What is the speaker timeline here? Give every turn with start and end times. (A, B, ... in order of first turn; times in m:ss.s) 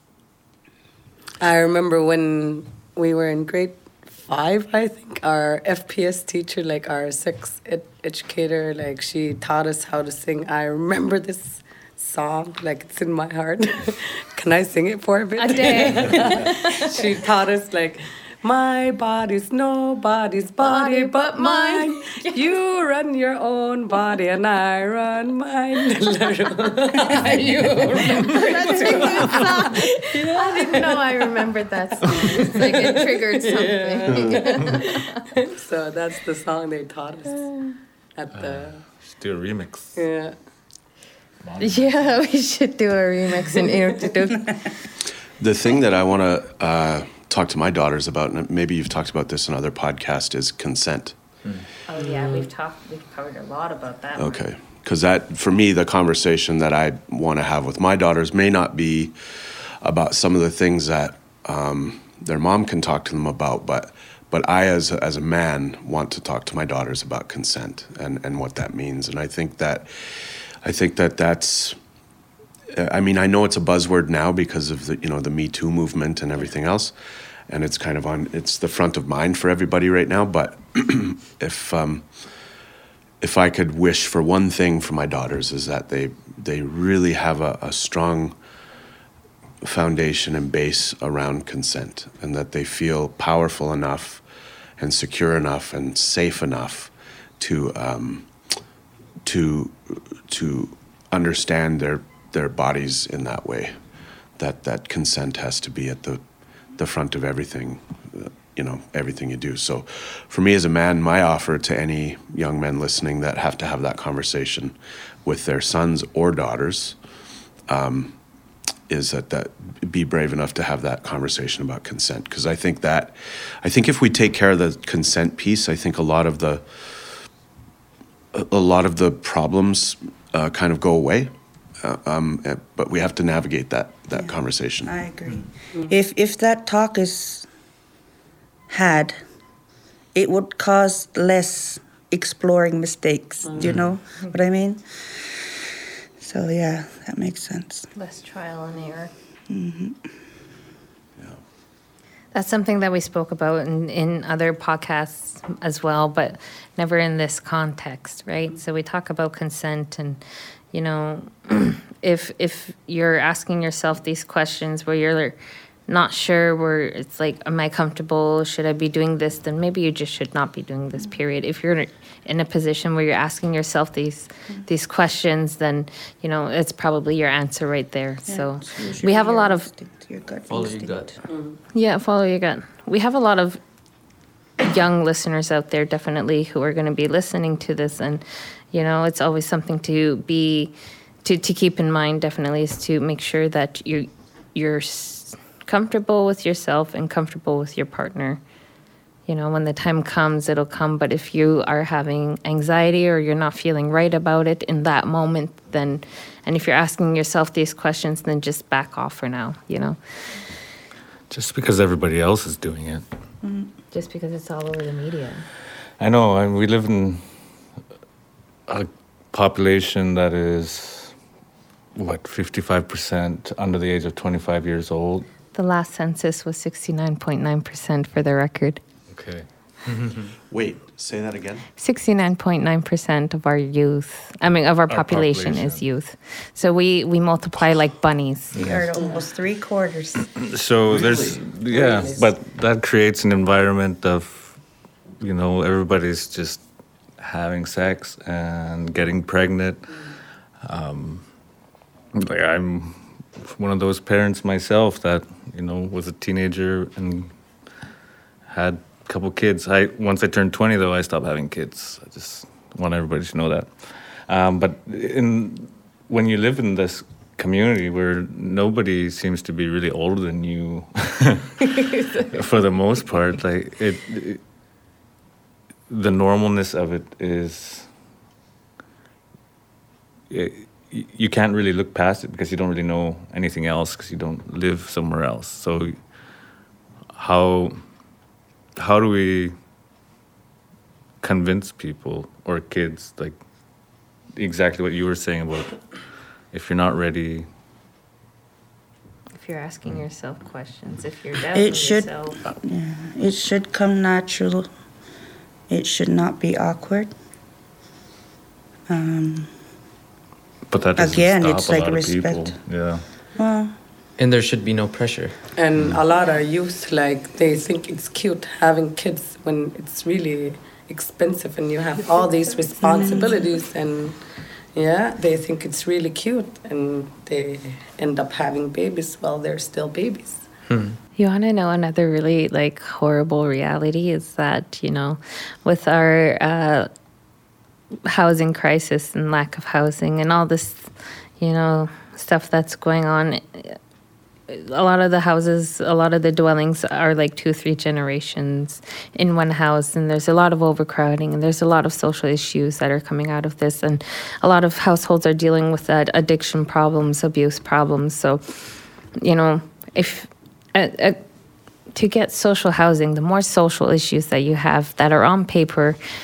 0:01.4-0:31.0 A
0:15.4-0:17.0 B
0:20.6-0:22.6 B
0:28.0-0:35.2 B
0:32.1-0:37.5 A
0:38.2-0:38.8 A
0:38.3-0:40.0 C
0:40.0-0:40.3 A
0:41.4-0:41.9 C
0:41.6-0:44.5 B
0:45.4-0:51.2 D
0:51.9-0:54.4 B
0:52.0-0:52.5 A
0:54.2-0:59.1 D
0:59.8-1:09.9 D
1:10.6-1:11.8 D
1:12.7-1:16.9 D
1:17.5-1:22.0 D
1:23.2-1:28.3 D
1:29.6-1:34.2 D
1:34.8-1:38.3 D
1:39.2-1:43.7 D
1:44.4-1:46.2 D
1:46.8-1:57.0 D
1:57.7-1:58.2 D
1:58.9-2:06.8 D
2:08.3-2:14.9 D
2:14.1-2:17.5 E
2:18.7-2:19.2 E
2:20.1-2:25.5 E
2:23.4-2:23.8 A
2:26.2-2:27.9 E
2:27.9-2:29.1 B
2:29.5-2:30.0 E
2:32.3-2:40.2 B
2:40.7-2:45.4 B
2:45.9-2:59.7 B
2:58.2-3:01.1 E
3:00.5-3:01.2 F
3:01.3-3:01.6 A
3:01.7-3:03.6 B
3:04.6-3:10.7 B
3:11.2-3:18.4 B
3:19.3-3:30.0 B
3:31.3-3:33.0 C
3:33.4-3:33.7 E
3:33.9-3:35.4 B
3:36.0-3:37.2 C
3:38.7-3:41.1 C
3:42.0-3:45.3 C
3:45.5-3:48.8 B
3:49.1-3:49.4 C
3:49.9-3:50.2 F
3:50.5-3:51.7 D
3:51.8-3:58.5 B
3:54.9-3:55.8 C
3:58.5-4:00.3 E
3:58.5-3:58.9 C
3:58.9-3:59.2 A
4:00.4-4:04.6 C
4:00.9-4:01.4 D
4:01.7-4:02.3 A
4:05.2-4:06.6 C
4:07.2-4:10.0 C
4:10.6-4:11.2 C
4:12.1-4:17.3 C
4:18.5-4:31.7 C
4:32.3-4:34.4 C
4:35.9-4:37.9 C
4:40.3-4:45.9 C
4:47.1-4:47.8 C
4:48.8-4:49.5 C
4:51.2-4:53.4 C
4:54.3-4:55.8 C
4:56.5-4:57.5 C
4:59.4-5:02.4 B
5:01.5-5:04.7 E
5:05.7-5:07.1 E
5:08.9-5:09.5 E
5:10.7-5:13.0 C
5:11.0-5:12.6 E
5:13.4-5:13.7 E
5:14.2-5:15.3 F
5:15.6-5:24.2 A
5:22.8-5:23.4 E
5:24.7-5:30.5 A
5:30.7-5:31.0 F
5:31.2-5:36.9 B
5:38.1-5:40.9 B
5:41.4-5:43.8 B
5:44.5-5:58.4 B
5:59.2-6:01.2 B
6:01.9-6:06.0 B